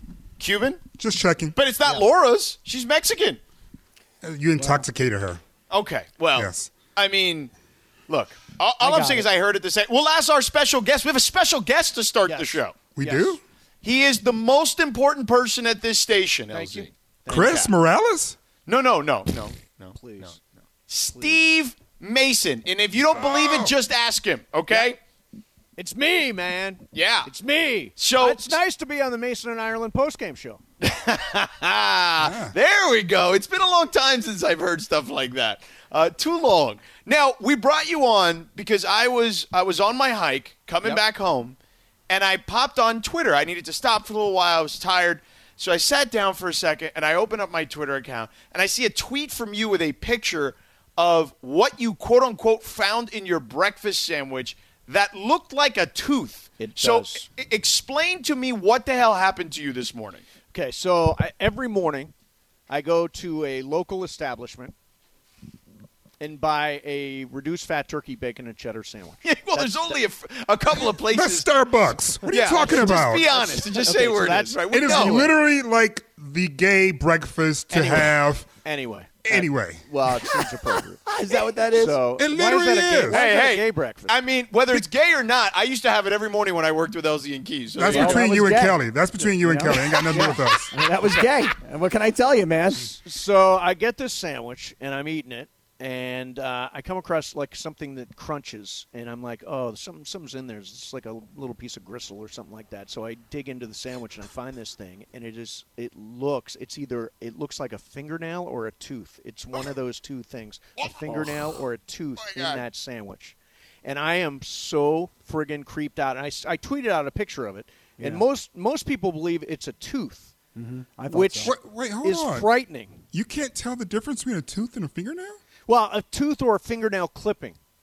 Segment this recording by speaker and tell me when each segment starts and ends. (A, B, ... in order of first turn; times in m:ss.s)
0:00.4-0:00.8 A
0:01.0-0:01.6 B
0:01.6-0:03.4 A
0:04.2-0:05.4 B
0:04.6-0:04.8 C
0:05.7-0:07.5 A
0:06.3-0:06.7 B
0:08.1-0:12.8 A
0:08.8-0:09.3 C
0:12.2-0:13.4 D
0:13.0-0:13.4 B
0:13.8-0:17.7 A
0:16.5-0:17.7 D
0:17.3-0:18.4 B
0:18.6-0:25.0 A
0:19.9-0:20.4 D
0:21.1-0:21.4 D
0:23.1-0:23.7 B
0:25.8-0:30.6 D
0:26.9-0:27.3 A
0:28.0-0:28.6 A
0:30.8-0:41.6 A
0:32.2-0:32.5 B
0:42.1-1:00.2 A
0:56.6-0:57.3 D
1:00.5-1:02.1 D
1:02.7-1:04.7 D
1:06.2-1:10.0 D
1:09.2-1:11.5 A
1:11.1-1:13.3 B
1:12.2-1:15.3 D
1:12.3-1:15.3 A
1:14.7-1:18.5 B
1:17.7-1:18.1 A
1:18.6-1:21.0 D
1:19.2-1:20.5 B
1:21.0-1:22.0 C
1:21.7-1:24.2 D
1:22.2-1:23.2 B
1:23.1-1:28.2 A
1:27.8-1:30.7 B
1:27.9-1:28.2 D
1:27.9-1:32.9 C
1:32.8-2:00.3 D
1:50.8-1:51.2 A
1:52.2-1:52.6 A
1:58.0-1:58.2 C
2:00.6-2:01.5 C
2:01.1-2:03.0 D
2:01.4-2:02.5 B
2:03.1-2:05.4 B
2:05.7-2:07.6 D